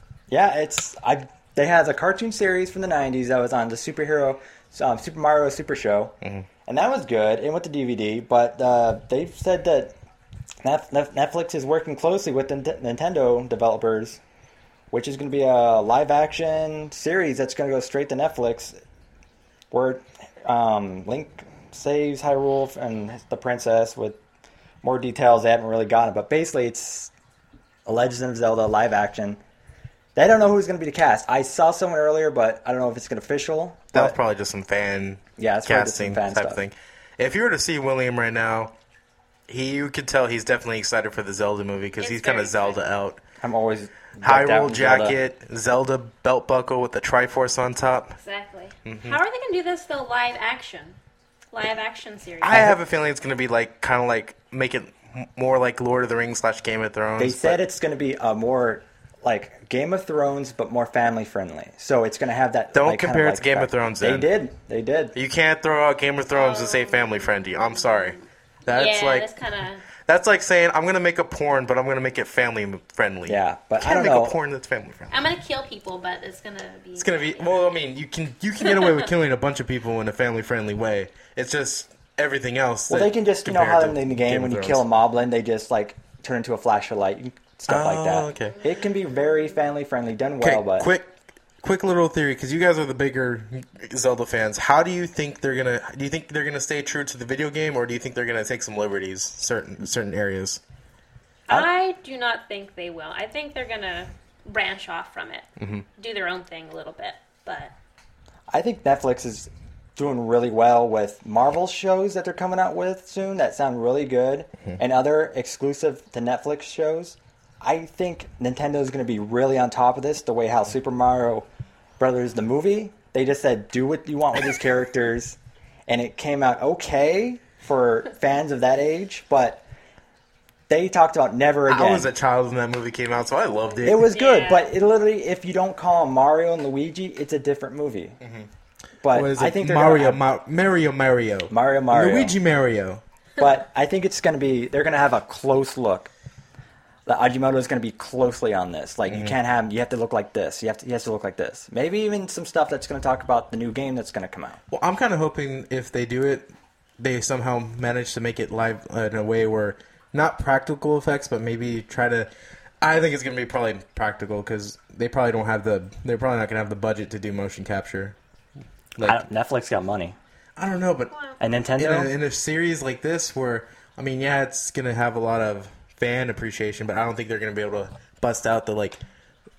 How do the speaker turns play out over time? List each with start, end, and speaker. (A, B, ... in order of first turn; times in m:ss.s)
0:00.3-0:09.9 A
0:06.2-0:06.5 B
0:10.6-0:14.2 A
0:14.9-0:18.8 A
0:19.7-0:24.2 A
0:24.8-0:27.1 A
0:27.8-0:29.4 A
0:30.2-0:34.2 A
0:33.9-0:38.7 B
0:35.4-0:36.6 A
0:39.5-0:43.2 B
0:42.0-0:42.8 C
0:43.4-0:45.2 A
0:44.2-0:48.2 B
0:48.2-0:51.0 C
0:48.8-0:49.2 B
0:51.5-0:52.7 C
0:52.4-0:57.6 B
0:57.2-1:05.1 A
1:02.7-1:04.3 B
1:05.1-1:09.3 B
1:06.3-1:09.8 C
1:10.0-1:15.1 B
1:13.2-1:14.4 A
1:15.1-1:17.6 C
1:17.0-1:24.8 B
1:22.9-1:30.9 A
1:27.7-1:28.6 B
1:30.4-1:40.6 B
1:41.5-1:45.5 C
1:45.6-1:45.8 B
1:46.0-1:47.7 C
1:48.5-2:01.4 A
2:02.0-2:09.6 A
2:10.7-2:12.1 A
2:11.7-2:14.0 B
2:13.8-2:18.2 A
2:14.0-2:14.7 C
2:18.2-2:18.5 B
2:19.0-2:20.2 A
2:19.1-2:23.0 B
2:21.5-2:22.4 A
2:23.4-2:26.1 A
2:27.0-2:34.6 A
2:29.1-2:29.4 B
2:34.7-2:42.3 B
2:42.8-2:48.2 B
2:48.9-2:49.2 B
2:49.0-2:50.2 A
2:50.6-2:51.1 B
2:51.4-2:52.1 A
2:51.8-2:59.0 B